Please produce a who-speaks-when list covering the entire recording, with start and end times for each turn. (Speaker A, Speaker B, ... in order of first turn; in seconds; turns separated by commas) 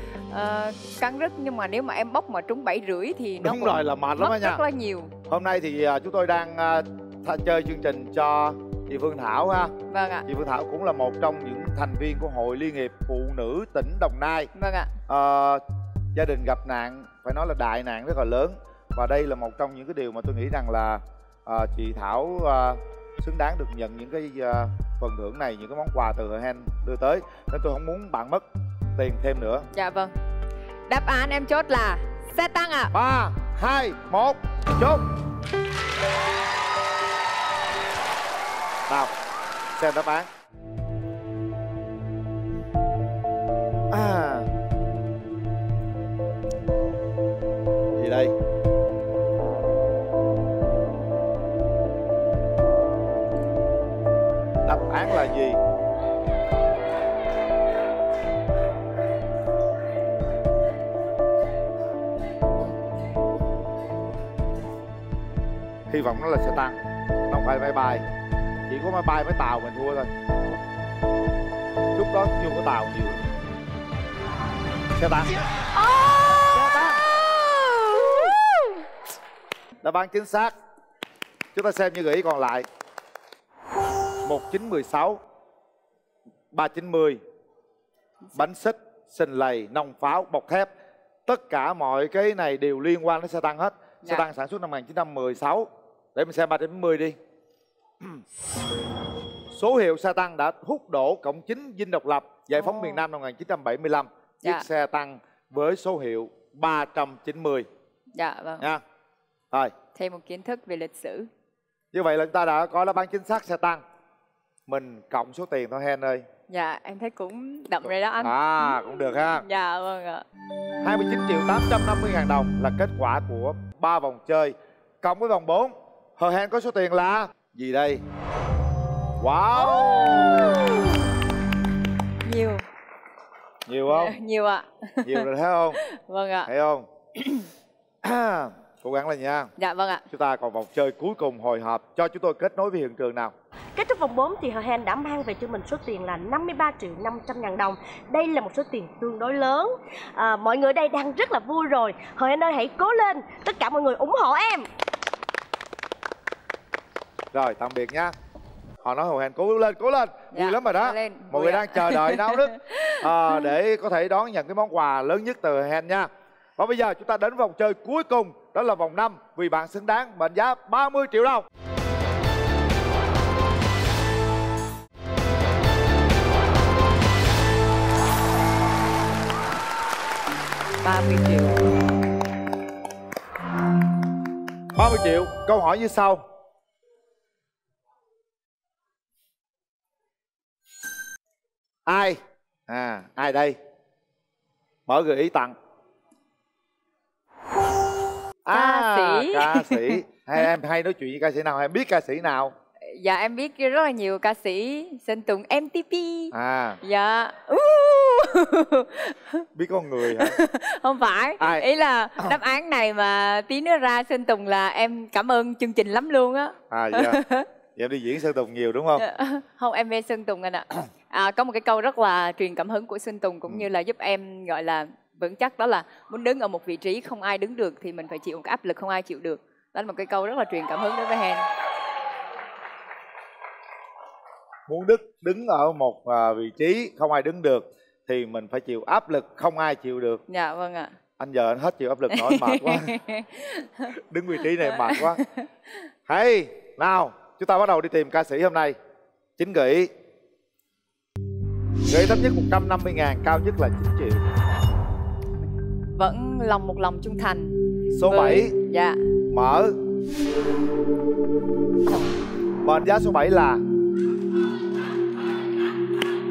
Speaker A: 0.3-5.1, Speaker B: 3.4-4.6, Speaker B: 5.3-9.7, Speaker A: 9.9-10.2, Speaker B: 10.2-14.5, Speaker A: 14.5-14.9, Speaker B: 15.1-15.6, Speaker B: 16.1-28.4, Speaker B: 28.9-29.7, Speaker A: 29.7-30.1, Speaker A: 30.9-32.9, Speaker B: 32.9-35.0, Speaker B: 39.7-40.3, Speaker B: 43.9-44.5, Speaker B: 47.9-48.3, Speaker B: 54.6-55.6, Speaker B: 65.9-68.0, Speaker B: 68.7-70.1, Speaker B: 71.9-73.2, Speaker B: 75.0-75.4, Speaker A: 76.0-76.4, Speaker B: 76.5-77.0, Speaker A: 77.9-78.2, Speaker B: 79.8-80.5, Speaker B: 81.5-82.7, Speaker B: 84.2-85.2, Speaker B: 86.5-87.2, Speaker B: 88.3-90.7, Speaker B: 91.2-97.2, Speaker B: 99.5-107.7, Speaker A: 102.5-103.0, Speaker A: 108.2-108.7, Speaker A: 109.9-111.3, Speaker B: 111.9-113.8, Speaker B: 114.7-116.2, Speaker A: 116.5-120.2, Speaker B: 118.2-119.4, Speaker B: 120.8-128.0, Speaker B: 129.2-130.7, Speaker A: 129.5-131.0, Speaker A: 132.2-132.6, Speaker B: 133.7-134.2, Speaker A: 133.9-135.3, Speaker B: 135.0-135.8, Speaker A: 135.8-136.5, Speaker B: 136.4-136.9, Speaker B: 138.0-139.5, Speaker A: 139.6-140.0, Speaker B: 140.1-143.3, Speaker C: 143.8-154.7, Speaker B: 157.3-158.1, Speaker B: 158.8-171.4, Speaker A: 160.3-162.9, Speaker A: 180.8-181.6, Speaker B: 184.7-186.2, Speaker B: 191.8-193.6, Speaker B: 194.9-195.6, Speaker B: 198.4-202.5, Speaker A: 198.5-200.0, Speaker A: 202.9-209.4, Speaker B: 206.3-206.8, Speaker B: 209.5-210.4, Speaker A: 210.1-217.5, Speaker B: 211.4-211.7, Speaker B: 216.7-217.2, Speaker B: 217.8-219.0, Speaker A: 219.0-231.4, Speaker B: 234.7-240.2, Speaker A: 240.3-240.9, Speaker B: 241.2-242.9, Speaker A: 242.1-243.9, Speaker B: 243.9-245.2, Speaker A: 244.6-245.4, Speaker B: 246.1-248.8, Speaker B: 249.4-249.9, Speaker B: 251.9-254.2, Speaker A: 255.9-257.5, Speaker B: 257.9-258.5, Speaker A: 258.0-259.0, Speaker B: 259.3-259.7, Speaker B: 262.6-263.6